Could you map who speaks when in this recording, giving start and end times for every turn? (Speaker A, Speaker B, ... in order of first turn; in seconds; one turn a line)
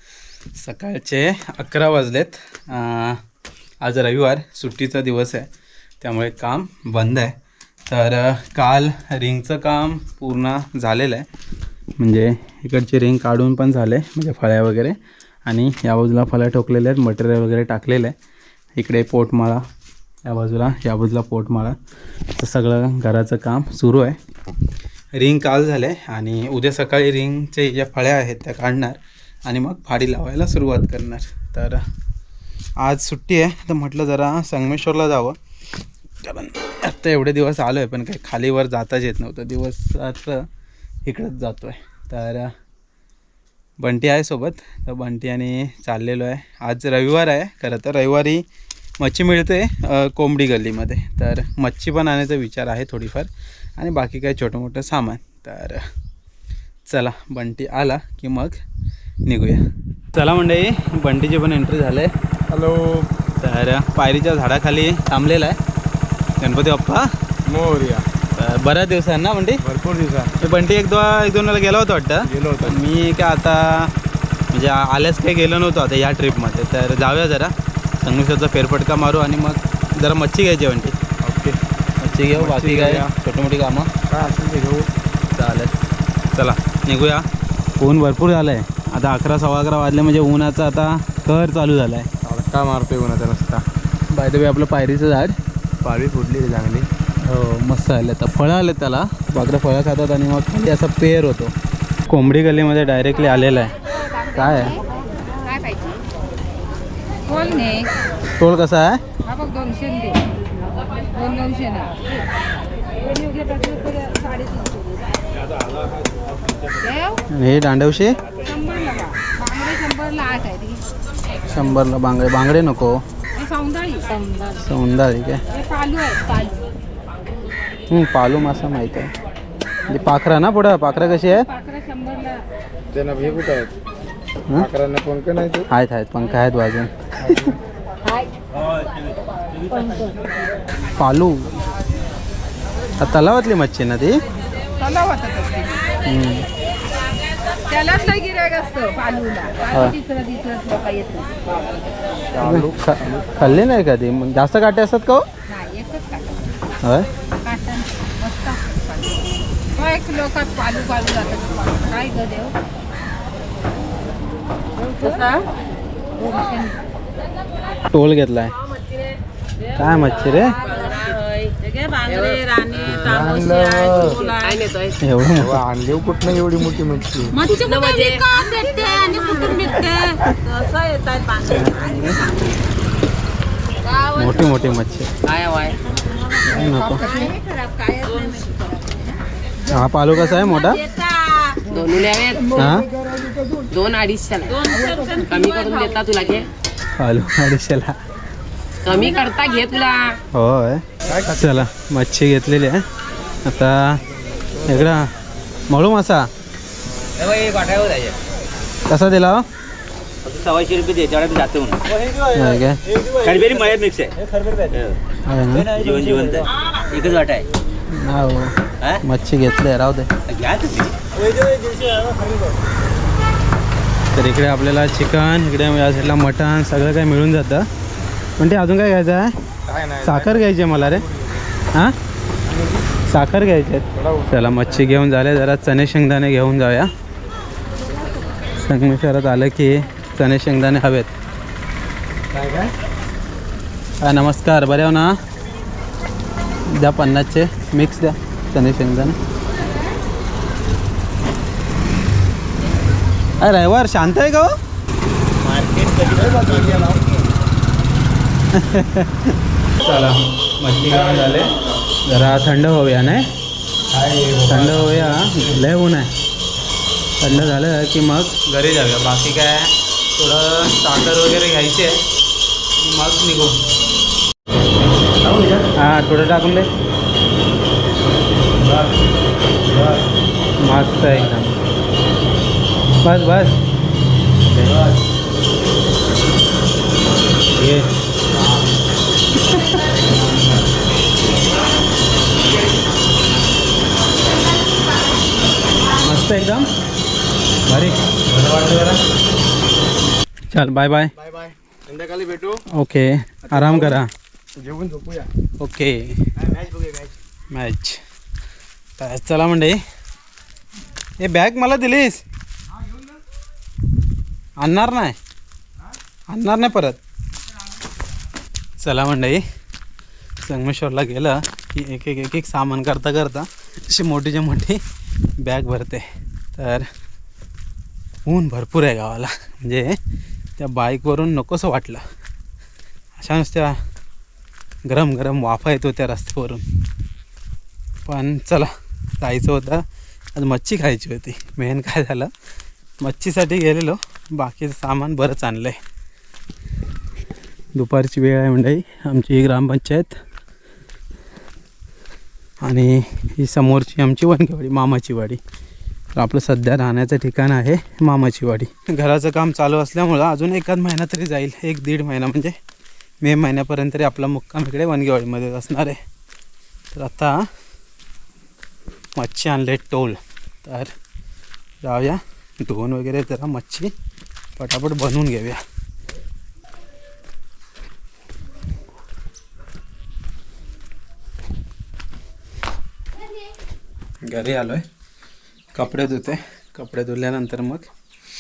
Speaker A: 0.6-3.2
Speaker A: 3.8-5.5
Speaker A: 6.0-7.4
Speaker A: 7.9-11.3
Speaker A: 12.0-18.2
Speaker A: 18.8-19.6
Speaker A: 20.2-21.8
Speaker A: 22.3-24.2
Speaker A: 25.1-31.8
Speaker A: 32.8-35.4
Speaker A: 36.2-40.5
Speaker A: 41.0-42.5
Speaker A: 43.8-48.5
Speaker A: 49.0-55.8
Speaker A: 56.9-58.6
Speaker A: 59.2-62.1
Speaker B: 62.5-63.1
Speaker A: 63.4-65.6
Speaker A: 66.4-67.1
Speaker B: 67.5-68.1
Speaker A: 68.3-69.6
Speaker B: 69.7-70.3
Speaker A: 70.4-73.9
Speaker B: 72.3-72.8
Speaker A: 74.5-81.0
Speaker B: 81.2-81.6
Speaker A: 82.0-83.9
Speaker B: 82.3-83.1
Speaker B: 84.1-84.9
Speaker A: 85.3-85.8
Speaker A: 86.3-87.3
Speaker A: 87.8-92.1
Speaker B: 92.2-93.7
Speaker A: 94.1-95.4
Speaker B: 95.8-96.9
Speaker A: 97.2-101.5
Speaker A: 102.1-103.8
Speaker A: 104.3-104.8
Speaker C: 104.4-104.8
Speaker C: 105.4-106.1
Speaker C: 107.3-107.9
Speaker A: 108.4-109.1
Speaker C: 109.3-110.2
Speaker C: 111.0-112.0
Speaker C: 113.0-115.0
Speaker C: 116.8-117.2
Speaker A: 117.3-118.2
Speaker C: 118.4-120.8
Speaker A: 121.4-123.0
Speaker C: 123.4-124.4
Speaker A: 124.5-125.4
Speaker C: 125.5-126.7
Speaker A: 127.9-129.1
Speaker A: 129.9-131.5
Speaker C: 131.5-132.4
Speaker B: 132.9-133.7
Speaker B: 134.6-135.7
Speaker A: 135.7-137.6
Speaker A: 141.0-141.6
Speaker A: 143.0-144.2
Speaker C: 144.8-145.9
Speaker A: 146.0-146.5
Speaker C: 147.7-151.4
Speaker A: 149.7-150.0
Speaker B: 152.3-153.4
Speaker A: 152.4-155.2
Speaker C: 155.5-156.5
Speaker A: 156.8-157.1
Speaker C: 157.4-162.6
Speaker D: 165.1-165.5
Speaker C: 166.2-166.8
Speaker A: 167.9-168.6
Speaker A: 169.7-170.7
Speaker D: 172.0-172.4
Speaker B: 172.8-174.3
Speaker D: 174.3-174.9
Speaker A: 175.0-175.7
Speaker B: 175.4-177.4
Speaker C: 177.4-180.1
Speaker D: 177.5-178.4
Speaker A: 181.4-182.6
Speaker A: 184.1-185.1
Speaker D: 185.2-185.8
Speaker A: 186.4-187.2
Speaker C: 187.1-189.1
Speaker A: 189.6-190.9
Speaker D: 191.6-192.6
Speaker A: 192.5-192.9
Speaker D: 193.7-196.5
Speaker A: 197.0-198.0
Speaker D: 198.9-200.2
Speaker A: 200.3-202.8
Speaker A: 203.4-204.0
Speaker A: 204.6-205.1
Speaker A: 205.7-206.3
Speaker E: 207.2-208.2
Speaker A: 208.9-209.5
Speaker E: 210.2-211.8
Speaker A: 212.2-212.8
Speaker E: 213.2-215.0
Speaker A: 215.2-215.8
Speaker E: 215.7-217.5
Speaker A: 217.9-220.1
Speaker E: 220.3-221.0
Speaker A: 224.1-227.7
Speaker A: 228.4-229.3
Speaker B: 229.7-230.4
Speaker A: 229.9-231.1
Speaker A: 233.1-236.9
Speaker B: 234.0-234.3
Speaker A: 238.6-241.1
Speaker B: 242.3-242.7
Speaker A: 244.0-245.1
Speaker A: 246.7-249.2
Speaker A: 253.4-254.5
Speaker D: 255.5-256.8
Speaker B: 256.1-257.0
Speaker A: 258.5-263.3
Speaker B: 263.9-265.6
Speaker A: 264.3-266.1
Speaker A: 267.2-272.0
Speaker A: 272.8-273.6
Speaker A: 275.6-276.7
Speaker A: 280.6-281.6
Speaker A: 283.0-283.6
Speaker A: 284.6-284.9
Speaker A: 287.5-287.9
Speaker A: 295.9-296.7
Speaker A: 297.6-299.0
Speaker A: 300.5-301.1
Speaker B: 301.3-302.6
Speaker A: 302.7-304.1
Speaker B: 303.6-304.0
Speaker B: 304.6-305.3
Speaker A: 305.6-306.3
Speaker B: 306.5-307.1
Speaker A: 307.5-308.0
Speaker A: 309.0-309.8
Speaker A: 311.2-312.2
Speaker A: 314.6-315.2
Speaker A: 316.3-317.0
Speaker A: 318.8-319.4
Speaker A: 320.4-324.8
Speaker A: 325.4-326.9
Speaker A: 328.3-330.0
Speaker A: 330.6-332.0
Speaker A: 333.2-333.8
Speaker A: 334.9-336.6
Speaker A: 338.1-339.8
Speaker A: 340.4-342.3
Speaker A: 343.0-345.8
Speaker A: 347.8-350.2
Speaker A: 352.6-355.4
Speaker A: 356.1-362.6
Speaker A: 363.2-366.0
Speaker A: 366.9-367.5
Speaker A: 369.1-370.9
Speaker A: 371.8-373.9
Speaker A: 374.6-375.6
Speaker A: 384.2-384.9
Speaker A: 385.7-387.9